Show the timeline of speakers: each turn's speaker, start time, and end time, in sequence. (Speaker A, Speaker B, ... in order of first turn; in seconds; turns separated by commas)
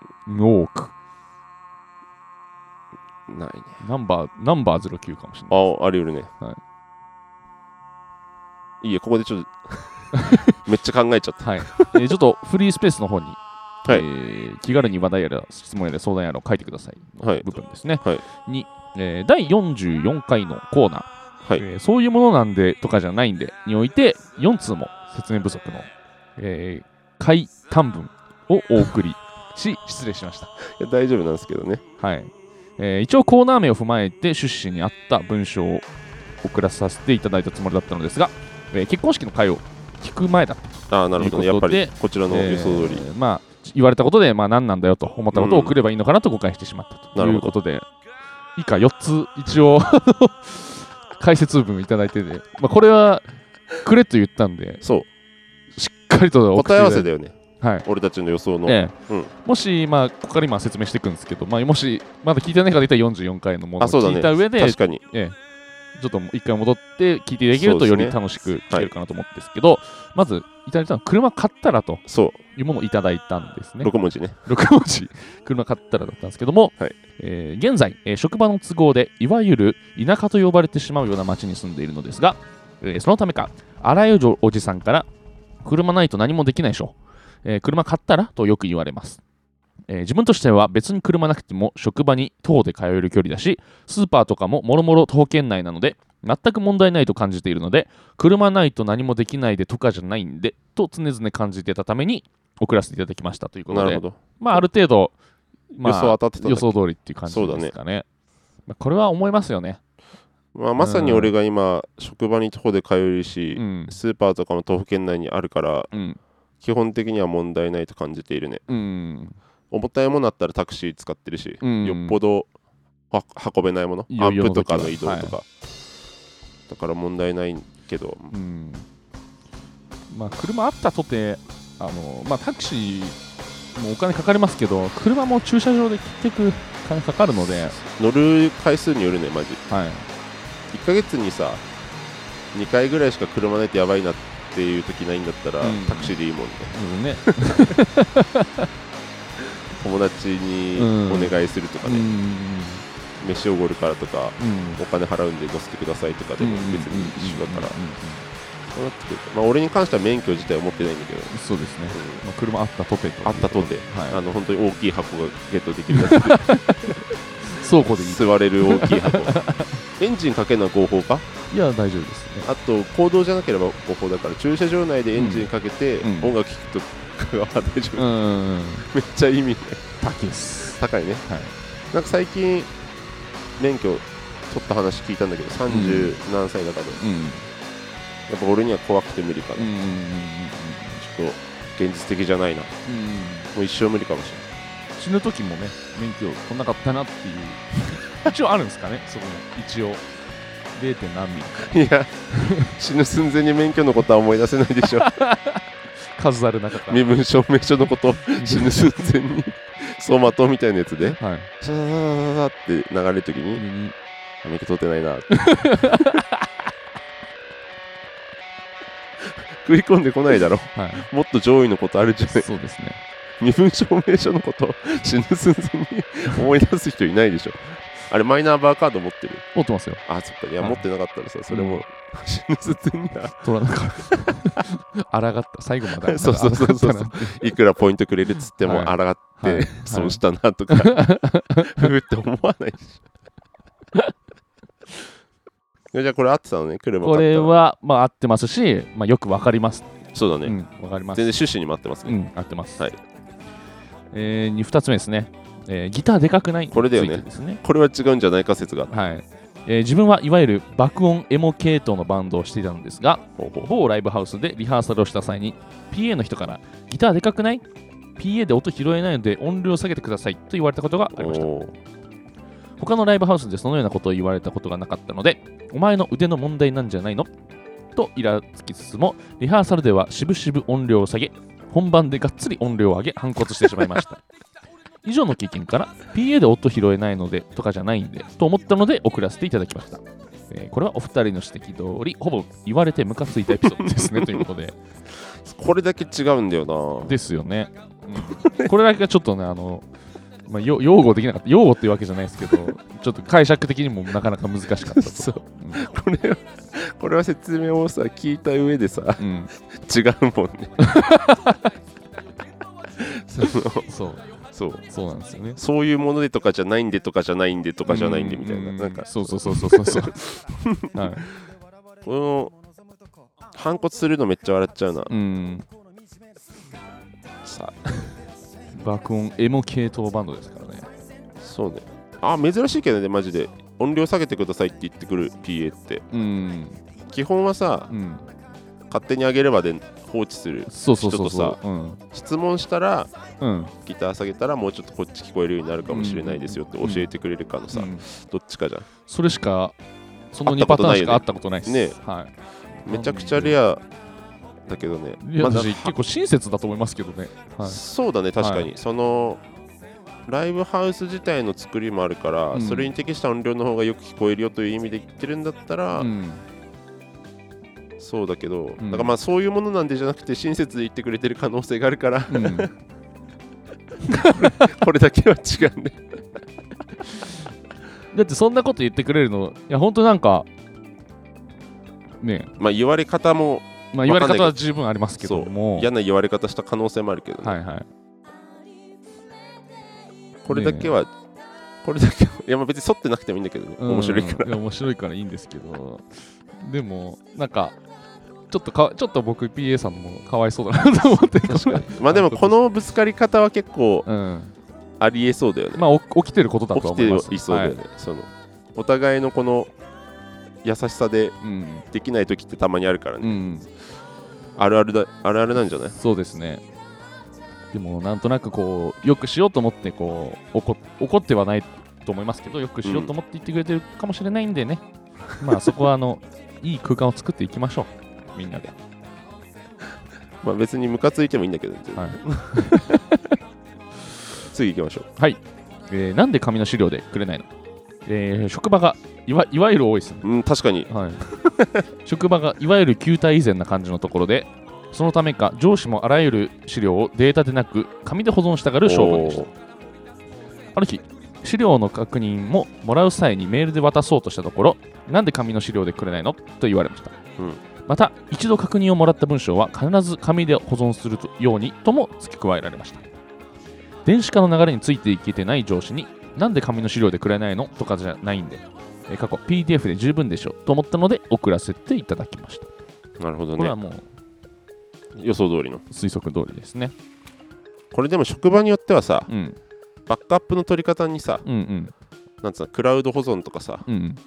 Speaker A: 0.2-0.9, Speaker B: 3.3-3.8, Speaker A: 3.8-5.6, Speaker B: 5.5-6.3, Speaker B: 8.8-12.0, Speaker A: 10.1-10.6, Speaker A: 11.4-30.5, Speaker B: 17.2-17.5, Speaker B: 30.6-31.8, Speaker A: 32.0-35.9, Speaker A: 36.4-47.9, Speaker B: 40.9-43.0, Speaker B: 45.3-45.8, Speaker B: 47.1-47.5, Speaker A: 48.5-54.8, Speaker B: 54.8-55.1, Speaker A: 55.8-57.1, Speaker B: 56.5-59.3, Speaker A: 57.6-57.9, Speaker A: 58.6-65.4, Speaker B: 63.8-65.0, Speaker A: 65.9-73.9, Speaker B: 67.5-68.2, Speaker B: 72.1-72.4, Speaker B: 73.8-74.4, Speaker A: 74.4-85.1, Speaker A: 85.6-89.2, Speaker A: 89.9-105.1, Speaker B: 103.7-104.6, Speaker A: 105.7-108.0, Speaker B: 105.8-106.7, Speaker B: 107.3-107.7, Speaker A: 108.7-109.8, Speaker B: 110.5-115.9, Speaker A: 110.8-111.3, Speaker A: 113.5-114.0, Speaker A: 115.9-116.2, Speaker B: 116.6-118.6, Speaker A: 118.7-119.4, Speaker B: 119.7-122.5, Speaker A: 121.6-122.2, Speaker B: 123.1-125.4, Speaker A: 124.1-125.4, Speaker B: 126.7-128.3, Speaker A: 128.3-128.8, Speaker A: 130.1-133.2, Speaker A: 133.7-137.8, Speaker B: 137.8-139.6, Speaker A: 139.7-140.1, Speaker B: 140.7-141.6, Speaker B: 142.5-146.7, Speaker A: 145.6-146.2, Speaker A: 146.7-148.7, Speaker B: 147.3-147.7, Speaker B: 149.7-152.1, Speaker A: 150.8-152.8, Speaker B: 153.2-157.7, Speaker A: 154.4-154.8, Speaker A: 156.4-158.3, Speaker B: 158.7-161.3, Speaker A: 161.3-164.2, Speaker B: 161.9-162.2, Speaker B: 163.2-167.1, Speaker A: 165.9-169.8, Speaker B: 167.6-169.4, Speaker B: 170.0-171.3, Speaker A: 171.5-172.5, Speaker B: 172.4-178.1, Speaker A: 175.2-175.5, Speaker A: 176.0-176.3, Speaker A: 177.9-178.9, Speaker B: 178.9-179.9, Speaker A: 180.0-181.5, Speaker B: 180.7-181.2, Speaker B: 181.9-182.7, Speaker B: 183.6-187.0, Speaker A: 185.7-186.2, Speaker A: 187.0-187.5, Speaker B: 188.3-189.7, Speaker A: 189.6-191.0, Speaker B: 191.0-192.8, Speaker A: 192.8-193.5, Speaker B: 193.5-194.4, Speaker A: 195.0-200.0, Speaker A: 200.7-201.8, Speaker B: 201.6-205.1, Speaker A: 202.3-202.7, Speaker A: 204.9-205.6, Speaker A: 206.2-207.1, Speaker B: 206.8-213.6, Speaker A: 208.4-208.9, Speaker A: 211.2-211.5, Speaker A: 213.6-213.9, Speaker B: 214.4-216.0, Speaker A: 215.3-216.4, Speaker B: 219.2-222.4, Speaker A: 220.7-221.1, Speaker A: 222.3-223.0, Speaker B: 223.4-229.4, Speaker A: 229.5-230.0, Speaker B: 230.1-233.4, Speaker A: 231.5-231.8, Speaker A: 233.4-237.5, Speaker B: 235.9-243.0, Speaker A: 238.6-241.9, Speaker B: 245.9-247.5, Speaker A: 247.0-249.9, Speaker B: 250.1-250.6, Speaker A: 250.4-251.3, Speaker B: 251.1-252.2, Speaker A: 252.1-252.8, Speaker A: 254.1-257.6, Speaker B: 256.7-258.9, Speaker A: 258.9-267.6, Speaker B: 263.4-263.7, Speaker A: 268.2-271.5, Speaker B: 271.1-271.8, Speaker A: 272.8-277.3, Speaker A: 277.9-284.2, Speaker A: 285.0-294.8, Speaker B: 293.6-294.4, Speaker B: 295.3-297.1, Speaker A: 297.1-299.9, Speaker B: 298.2-298.7, Speaker A: 300.5-305.8, Speaker B: 304.8-310.9, Speaker A: 309.2-309.5, Speaker A: 310.8-311.7, Speaker B: 312.9-313.9, Speaker A: 313.9-314.3, Speaker B: 314.5-314.8, Speaker A: 314.9-315.6, Speaker B: 315.6-321.4, Speaker A: 317.8-320.3, Speaker A: 320.9-321.3, Speaker B: 322.0-322.5, Speaker B: 323.5-325.1, Speaker A: 325.1-325.6, Speaker B: 327.4-328.2, Speaker A: 328.7-330.9, Speaker B: 331.4-336.0, Speaker A: 336.1-336.8, Speaker B: 337.1-337.9, Speaker A: 337.9-338.3, Speaker B: 338.9-341.6, Speaker A: 340.7-342.0, Speaker B: 342.1-343.1, Speaker A: 343.4-343.7, Speaker B: 343.8-348.9, Speaker A: 345.9-347.1, Speaker A: 347.7-348.0, Speaker A: 349.1-349.8, Speaker A: 350.3-352.3, Speaker B: 350.4-352.0, Speaker B: 352.9-353.8, Speaker A: 352.9-353.6, Speaker B: 354.6-355.9, Speaker A: 355.2-357.8, Speaker B: 357.6-359.4, Speaker A: 358.4-358.7, Speaker B: 360.3-366.1, Speaker A: 362.5-362.9, Speaker A: 366.0-366.4, Speaker B: 368.0-372.7, Speaker A: 368.8-369.1, Speaker A: 372.3-372.7, Speaker A: 374.1-374.7, Speaker B: 374.1-376.2, Speaker A: 378.1-380.5, Speaker A: 382.2-382.5, Speaker B: 382.6-384.6, Speaker A: 383.9-385.9, Speaker B: 385.2-387.6, Speaker A: 387.4-387.9, Speaker B: 390.4-391.1, Speaker A: 390.5-390.9, Speaker B: 391.8-394.6, Speaker A: 393.8-397.8, Speaker A: 398.5-402.6, Speaker B: 401.5-404.1, Speaker A: 404.1-404.5, Speaker B: 405.0-405.8, Speaker A: 405.7-407.8, Speaker B: 406.7-409.7, Speaker B: 410.6-411.4, Speaker A: 411.4-411.9, Speaker B: 411.9-413.4, Speaker A: 413.2-413.7, Speaker B: 414.6-415.9, Speaker A: 415.9-416.6, Speaker A: 417.7-424.8, Speaker B: 422.8-423.1, Speaker A: 425.4-428.7, Speaker B: 430.4-432.8, Speaker A: 431.9-433.2, Speaker B: 434.4-435.1, Speaker A: 435.2-437.5, Speaker A: 438.1-440.3, Speaker B: 440.2-441.8, Speaker A: 440.9-441.2, Speaker A: 442.0-449.4, Speaker B: 448.8-449.5, Speaker A: 450.7-457.1, Speaker A: 457.9-463.0, Speaker A: 464.0-472.7, Speaker B: 473.2-473.8, Speaker A: 473.6-474.1, Speaker B: 475.1-475.8, Speaker A: 475.9-476.9, Speaker B: 477.9-479.3, Speaker A: 479.3-479.6, Speaker B: 480.1-481.4, Speaker A: 481.4-481.9, Speaker B: 482.4-483.9, Speaker A: 483.9-484.2